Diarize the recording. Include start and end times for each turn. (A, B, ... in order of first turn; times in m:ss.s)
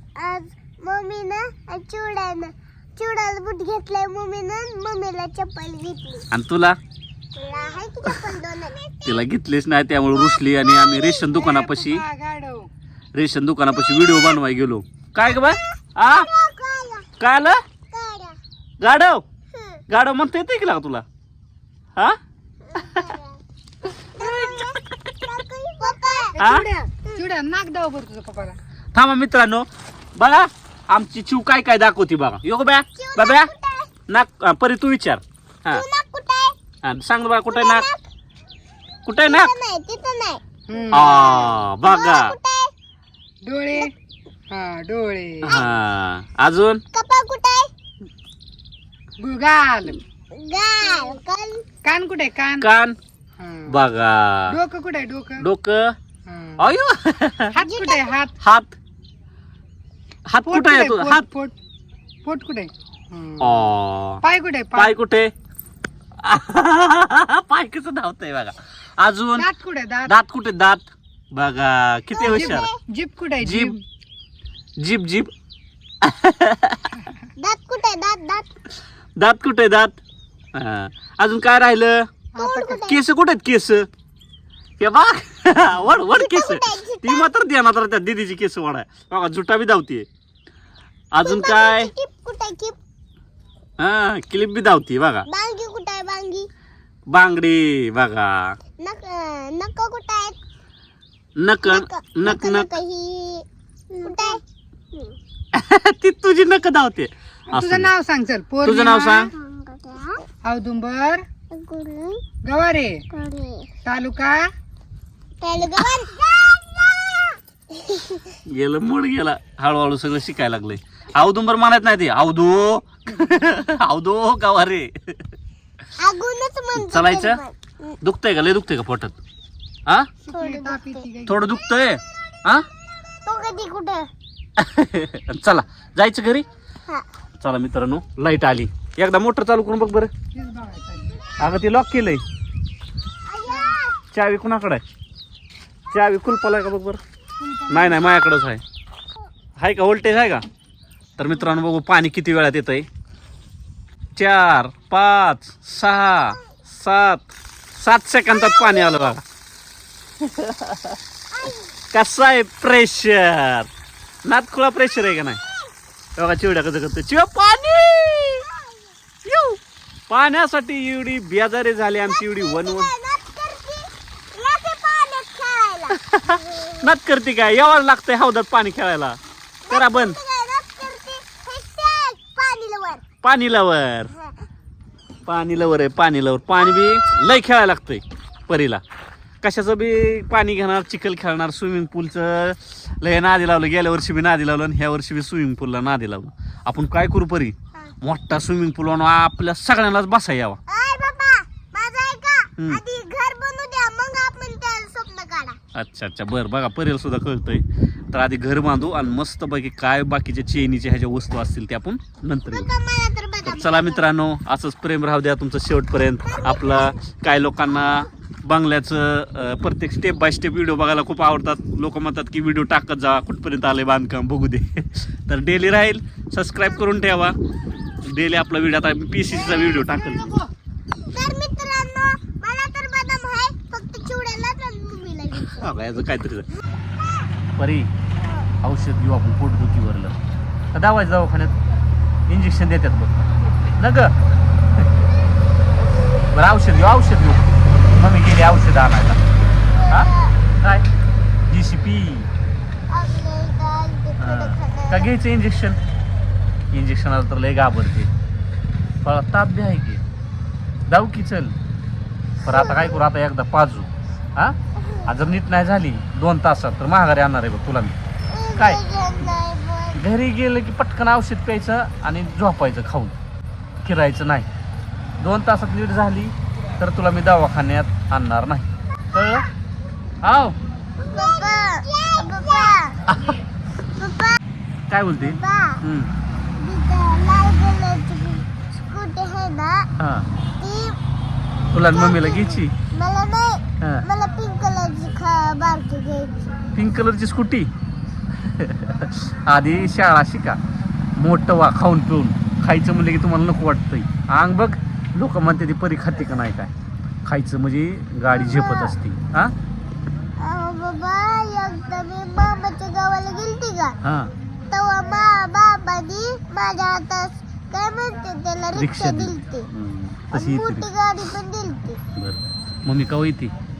0:00.2-0:06.3 A
0:06.3-0:06.8 B
0:07.3-0:09.2 A
0:09.0-0:12.0 B
0:10.3-0:11.3 A
0:11.3-0:12.7 C
0:13.1-0:16.3 B
0:14.0-0:14.4 A
0:15.3-0:17.1 A
0:17.2-0:17.6 B
0:17.9-0:18.4 A
0:18.8-0:19.2 B
0:19.5-0:19.8 A
0:19.9-0:21.0 B
0:22.7-0:23.4 A
0:22.8-0:23.0 B
0:24.2-0:26.4 A
0:24.2-0:24.6 B
0:26.2-0:28.6 C
0:26.4-0:26.6 B
0:28.9-0:33.5 B
0:33.0-0:33.9 A
0:34.1-0:35.8 B
0:35.7-0:36.6 A
0:36.8-0:37.8 B
0:37.5-0:38.0 A
0:39.0-0:39.5 B
0:39.1-0:42.7 A
0:40.7-0:41.2 C
0:40.9-0:42.3 B
0:43.4-0:43.9 C
0:44.5-0:45.5 C
0:45.4-0:46.8 B
0:46.9-0:47.7 A
0:49.2-0:50.0 C
0:50.3-0:51.6 A
0:51.8-0:52.6 C
0:52.6-0:53.0 B
0:53.4-0:53.7 C
0:53.7-0:54.6 B
0:54.5-0:55.4 C
0:55.4-0:56.0 B
0:56.3-0:56.7 C
0:56.6-0:57.5 B
0:57.5-0:58.3 C
0:57.6-0:58.1 A
0:58.4-0:58.7 B
1:00.3-1:01.3 B
1:00.4-1:01.5 C
1:02.2-1:03.6 C
1:03.4-1:04.2 B
1:04.2-1:05.0 C
1:04.7-1:05.3 B
1:06.2-1:09.5 B
1:09.4-1:10.1 C
1:10.0-1:12.7 B
1:12.1-1:12.8 A
1:12.2-1:13.8 C
1:13.4-1:13.7 B
1:14.8-1:15.3 B
1:16.0-1:17.0 B
1:17.4-1:18.5 A
1:19.2-1:20.0 B
1:20.5-1:22.1 B
1:22.3-1:22.8 C
1:22.4-1:23.0 A
1:22.8-1:23.9 B
1:24.8-1:30.1 B
1:26.1-1:27.3 A
1:31.1-1:31.9 B
1:31.2-1:32.8 A
1:33.8-1:35.2 B
1:35.3-1:36.5 A
1:37.1-1:38.6 B
1:38.8-1:40.4 A
1:41.4-1:42.7 B
1:41.6-1:44.4 A
1:45.5-1:47.9 B
1:47.5-1:49.3 C
1:48.6-1:49.3 B
1:49.3-1:50.2 A
1:50.4-1:51.2 C
1:51.5-1:52.2 A
1:52.4-1:53.0 C
1:53.1-1:53.7 A
1:53.8-1:54.5 C
1:55.4-1:58.2 A
1:58.5-2:04.9 B
2:06.0-2:08.0 A
2:06.8-2:07.4 B
2:08.0-2:09.2 B
2:10.2-2:11.4 C
2:10.3-2:11.1 A
2:11.3-2:12.6 B
2:13.2-2:14.1 A
2:14.6-2:16.4 B
2:17.4-2:20.1 B
2:20.3-2:21.2 C
2:21.4-2:22.2 B
2:23.2-2:24.0 A
2:23.5-2:23.8 C
2:24.1-2:24.8 B
2:25.9-2:27.0 B
2:27.4-2:28.0 C
2:27.7-2:28.6 B
2:29.6-2:30.4 B
2:31.2-2:32.9 B
2:34.2-2:39.2 B
2:38.4-2:39.1 A
2:40.4-2:40.7 B
2:41.4-2:41.6 A
2:41.9-2:43.7 B
2:44.2-2:45.4 B
2:46.2-2:48.5 B
2:49.2-2:52.9 B
2:52.2-2:56.9 A
2:56.0-2:59.2 B
2:59.6-3:03.0 A
2:59.7-3:00.2 B
3:03.2-3:04.1 B
3:04.1-3:04.4 A
3:05.2-3:08.8 B
3:06.6-3:07.1 A
3:09.4-3:20.6 B
3:20.7-3:25.6 A
3:22.6-3:22.8 B
3:25.7-3:32.7 B
3:32.5-3:34.1 A
3:33.4-3:47.4 B
3:36.2-3:37.0 A
3:48.0-3:50.4 B
3:49.6-3:50.5 C
3:51.0-3:55.7 A
3:55.4-3:56.5 B
3:57.6-3:57.9 B
3:58.2-3:58.5 A
3:58.6-4:00.2 B
4:00.7-4:01.5 B
4:02.3-4:04.1 B
4:06.3-4:09.2 B
4:09.7-4:10.4 A
4:09.9-4:10.8 B
4:11.5-4:12.3 B
4:12.9-4:15.1 A
4:14.2-4:15.8 B
4:16.7-4:18.1 B
4:19.0-4:20.0 B
4:20.9-4:21.5 B
4:22.4-4:28.0 B
4:22.4-4:23.0 A
4:24.8-4:25.1 A
4:28.3-4:30.0 A
4:28.6-4:28.8 B
4:30.0-4:33.1 B
4:33.8-4:34.5 B
4:35.2-4:39.5 B
4:40.2-4:40.6 B
4:41.0-4:43.0 A
4:43.1-4:43.4 B
4:44.0-4:44.4 A
4:44.9-4:46.1 B
4:45.2-4:45.8 A
4:46.6-4:49.9 A
4:50.0-4:50.3 B
4:50.6-4:51.0 A
4:51.7-4:52.7 B
4:51.9-4:56.6 A
4:53.8-4:54.0 B
4:56.7-4:57.7 B
4:58.4-5:00.6 B
5:01.2-5:06.7 B
5:07.2-5:09.5 B
5:08.3-5:09.0 A
5:10.4-5:14.0 A
5:14.0-5:14.3 B
5:14.7-5:19.7 A
5:18.7-5:20.9 B
5:20.3-5:22.0 A
5:22.2-5:23.5 B